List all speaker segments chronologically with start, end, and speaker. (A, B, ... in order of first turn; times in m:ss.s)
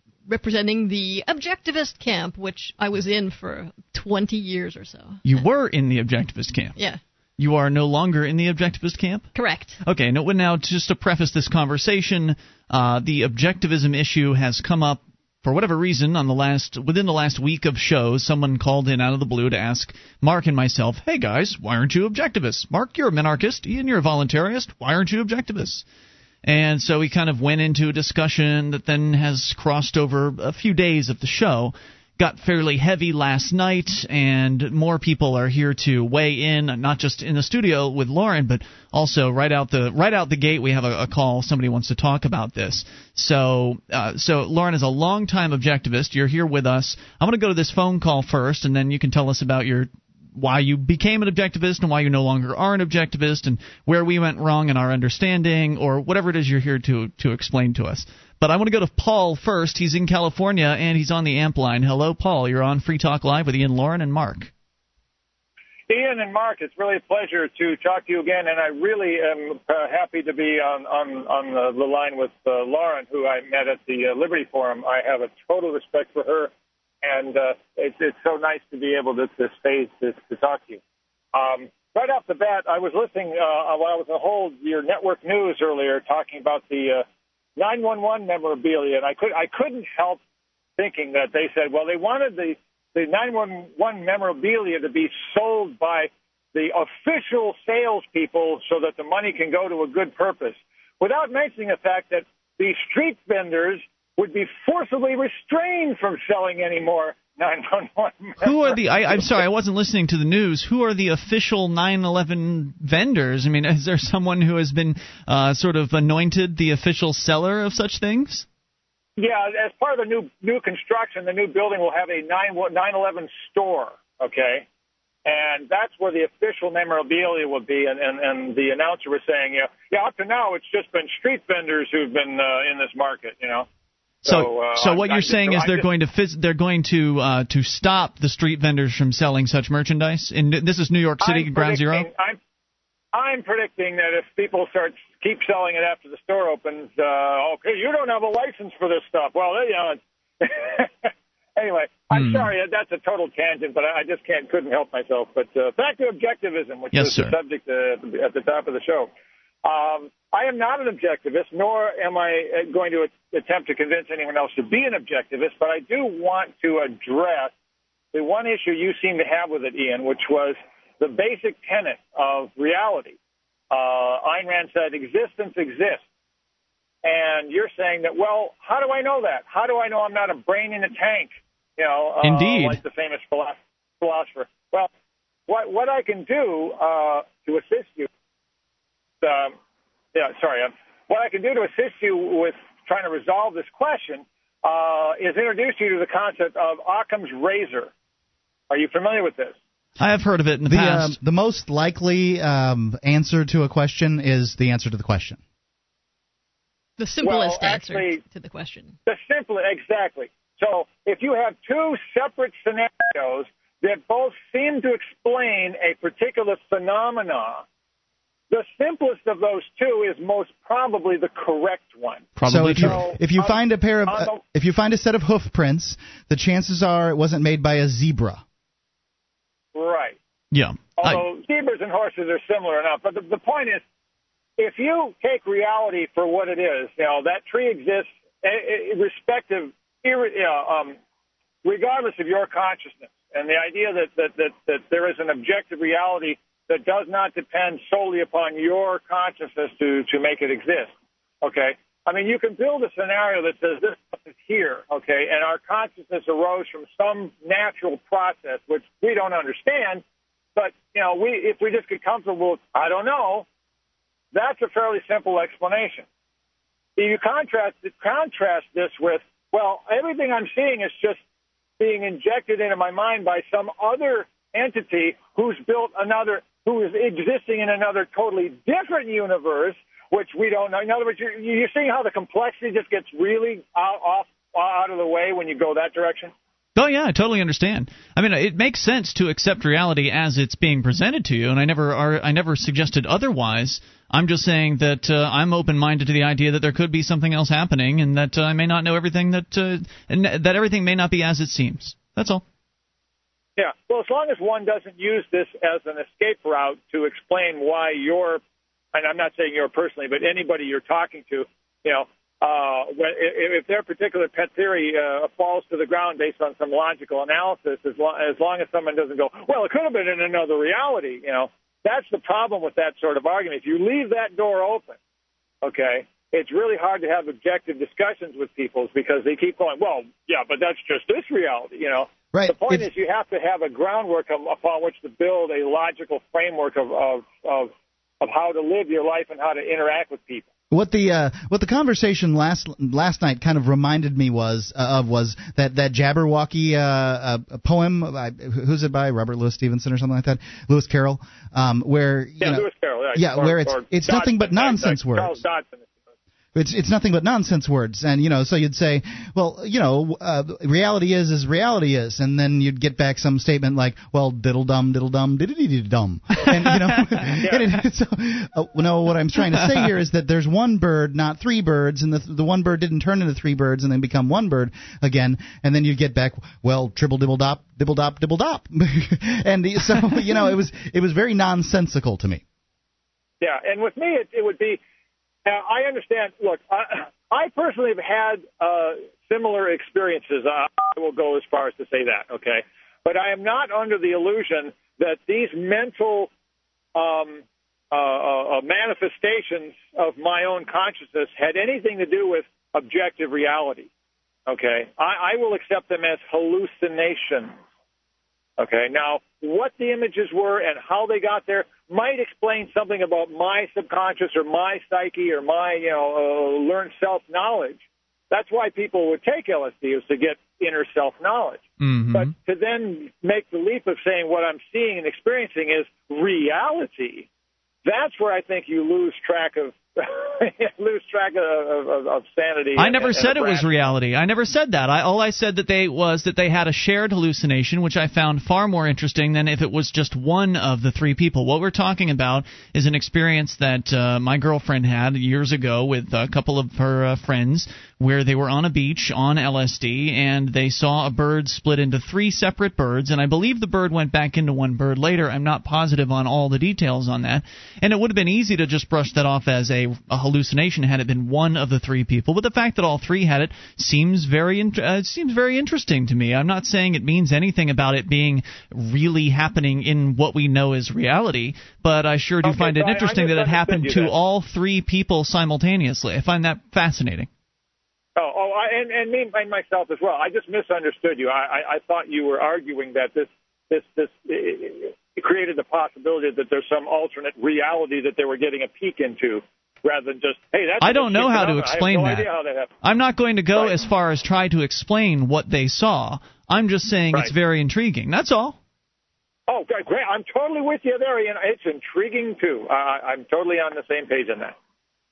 0:00.3-0:05.2 A
0:05.2-0:06.8 B
0:07.4-0:09.3 B
0:09.3-0:09.8 A
0:09.8-0:25.8 B
0:26.4-1:04.5 B
1:05.9-1:16.5 C
1:17.0-1:20.8 C
1:21.3-1:27.0 C
1:27.6-1:30.2 C
1:30.8-1:49.2 C
1:48.4-1:58.4 B
1:59.2-2:04.6 C
2:05.2-2:13.6 C
2:14.2-2:22.1 B
2:14.2-2:15.8 C
2:21.2-2:22.4 C
2:23.1-2:39.1 C
2:32.1-2:32.5 B
2:36.9-2:37.3 B
2:39.6-2:47.5 C
2:48.1-2:53.2 C
2:53.7-2:56.0 C
2:57.0-3:04.9 C
3:02.2-3:02.8 B
3:05.5-3:08.1 C
3:09.2-3:09.5 C
3:10.1-3:17.9 C
3:18.7-3:19.6 C
3:20.0-3:21.2 B
3:20.6-3:25.4 D
3:27.0-3:28.9 A
3:27.2-3:28.2 C
3:29.1-3:37.6 C
3:38.5-3:44.4 C
3:42.4-3:43.0 B
3:42.4-3:48.4 D
3:49.7-3:50.2 C
3:50.5-3:51.2 B
3:51.0-3:53.8 C
3:54.6-4:01.0 C
4:01.6-4:10.9 C
4:11.4-4:20.0 C
4:20.6-4:23.4 C
4:24.3-4:26.0 C
4:27.0-4:31.2 C
4:31.8-4:46.3 C
4:46.8-5:02.4 B
5:03.6-5:08.4 C
5:08.9-5:25.0 C
5:25.6-5:40.4 C
5:32.3-5:32.9 D
5:40.7-5:55.4 D
5:52.4-5:55.9 C
5:56.5-6:22.4 D
6:06.7-6:07.2 B
6:23.4-6:24.8 C
6:25.4-6:36.3 C
6:36.9-6:43.9 C
6:44.5-6:47.5 C
6:48.6-7:01.6 C
7:01.8-7:02.3 B
7:02.1-7:07.3 C
7:07.8-7:13.6 C
7:12.8-7:57.3 B
7:52.4-7:54.1 C
7:58.2-8:12.7 C
8:10.8-8:12.3 B
8:12.8-8:18.6 B
8:19.5-8:24.5 C